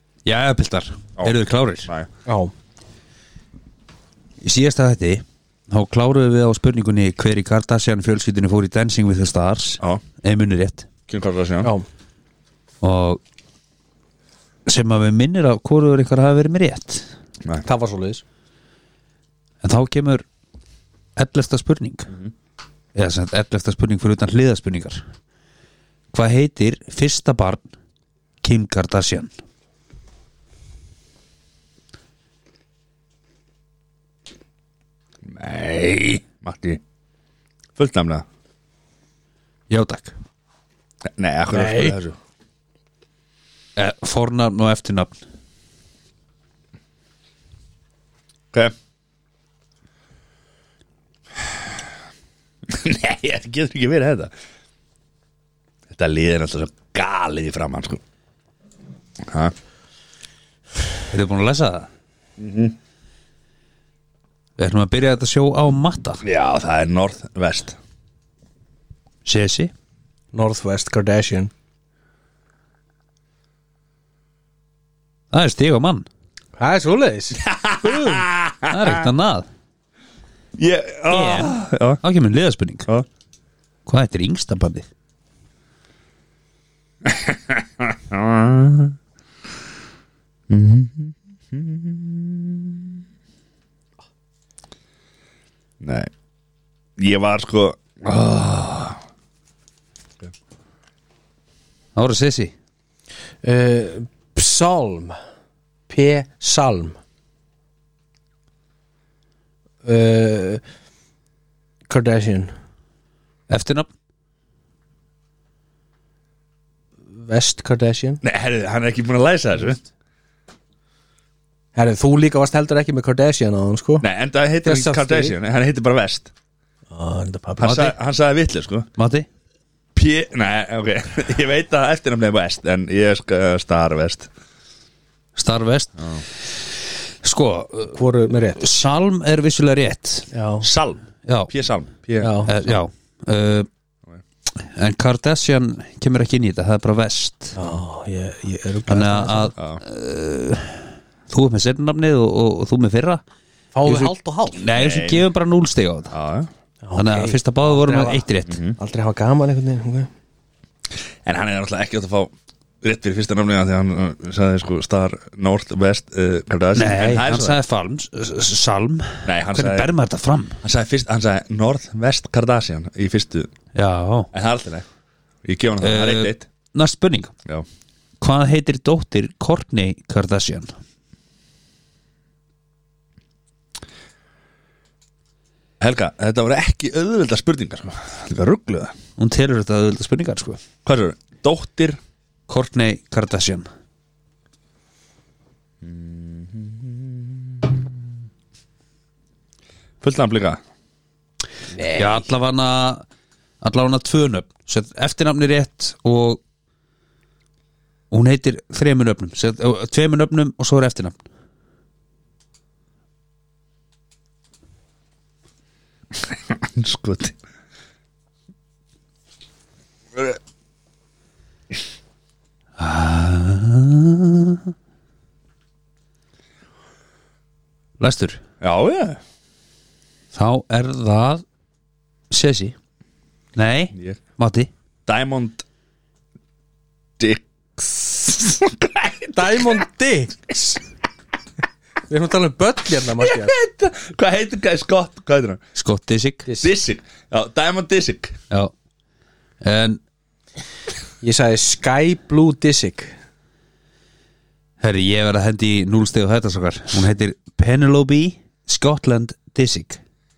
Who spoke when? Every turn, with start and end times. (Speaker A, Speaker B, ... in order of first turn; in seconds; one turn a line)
Speaker A: 0.2-1.9
Speaker B: 1.2-2.1
Speaker C: 2.3-2.5
Speaker A: 4.4-10.9
Speaker B: 11.1-11.7
Speaker A: 12.8-13.2
Speaker A: 14.7-17.1
Speaker C: 17.6-18.2
Speaker A: 19.6-20.2
Speaker A: 21.2-22.1
Speaker A: 22.9-25.0
Speaker A: 26.1-27.6
Speaker A: 28.4-29.3
Speaker B: 35.2-36.8
Speaker B: 37.8-38.2
Speaker A: 39.7-40.2
Speaker B: 41.2-42.2
Speaker C: 41.5-42.0
Speaker A: 43.8-45.2
Speaker B: 52.7-54.3
Speaker B: 55.9-58.0
Speaker B: 59.2-59.5
Speaker A: 61.1-61.9
Speaker B: 62.4-62.8
Speaker A: 64.6-66.2
Speaker B: 66.2-67.8
Speaker A: 69.2-69.7
Speaker C: 70.3-71.5
Speaker A: 75.3-76.1
Speaker C: 76.6-78.3
Speaker B: 77.4-79.1
Speaker A: 78.7-79.5
Speaker B: 80.6-82.0
Speaker A: 81.1-82.9
Speaker A: 83.9-84.9
Speaker B: 87.0-89.0
Speaker B: 90.5-93.0
Speaker B: 95.8-96.1
Speaker B: 97.0-99.0
Speaker A: 102.0-102.5
Speaker C: 103.4-105.2
Speaker C: 105.9-107.0
Speaker C: 109.8-110.6
Speaker C: 111.9-112.5
Speaker A: 113.5-113.9
Speaker C: 117.1-118.2
Speaker B: 118.2-119.8
Speaker C: 121.8-124.1
Speaker B: 124.0-126.3
Speaker C: 124.6-125.3
Speaker C: 126.9-127.9
Speaker B: 127.6-128.9
Speaker A: 129.0-129.3
Speaker B: 129.9-134.3
Speaker A: 135.4-136.2
Speaker A: 137.2-138.0
Speaker C: 137.9-138.6
Speaker A: 138.6-140.3
Speaker C: 140.3-140.7
Speaker B: 140.6-142.5
Speaker A: 141.2-141.5
Speaker C: 142.2-142.5
Speaker A: 142.4-143.7
Speaker A: 144.6-147.6
Speaker C: 147.6-149.5
Speaker A: 148.9-153.2
Speaker B: 149.6-149.8
Speaker C: 153.7-154.6
Speaker A: 153.8-156.1
Speaker B: 154.7-155.3
Speaker B: 156.1-156.5
Speaker C: 156.8-158.3
Speaker A: 157.0-158.6
Speaker B: 158.5-158.8
Speaker C: 158.8-160.1
Speaker B: 161.2-167.6
Speaker A: 166.8-170.6
Speaker B: 169.2-169.9
Speaker B: 170.6-173.5
Speaker A: 173.7-174.3
Speaker B: 174.3-174.8
Speaker B: 175.4-176.5
Speaker A: 175.8-177.3
Speaker A: 178.2-180.7
Speaker B: 185.8-188.9
Speaker A: 189.2-190.6
Speaker B: 190.8-192.0
Speaker A: 192.5-193.7
Speaker B: 195.8-197.9
Speaker B: 200.0-200.6
Speaker C: 201.8-202.2
Speaker A: 201.9-203.1
Speaker A: 203.6-206.4
Speaker A: 208.1-211.2
Speaker B: 216.2-217.4
Speaker A: 222.8-224.7
Speaker A: 228.0-228.4
Speaker B: 228.6-229.2
Speaker A: 230.3-231.4
Speaker A: 232.3-232.8
Speaker A: 233.6-234.7
Speaker B: 233.9-234.2
Speaker B: 235.1-235.6
Speaker B: 237.2-239.8
Speaker C: 239.3-240.8
Speaker C: 242.1-243.6
Speaker B: 243.2-245.6
Speaker A: 245.8-246.5
Speaker C: 246.5-246.7
Speaker B: 246.6-248.4
Speaker A: 249.6-250.0
Speaker C: 251.2-253.1
Speaker A: 254.8-260.0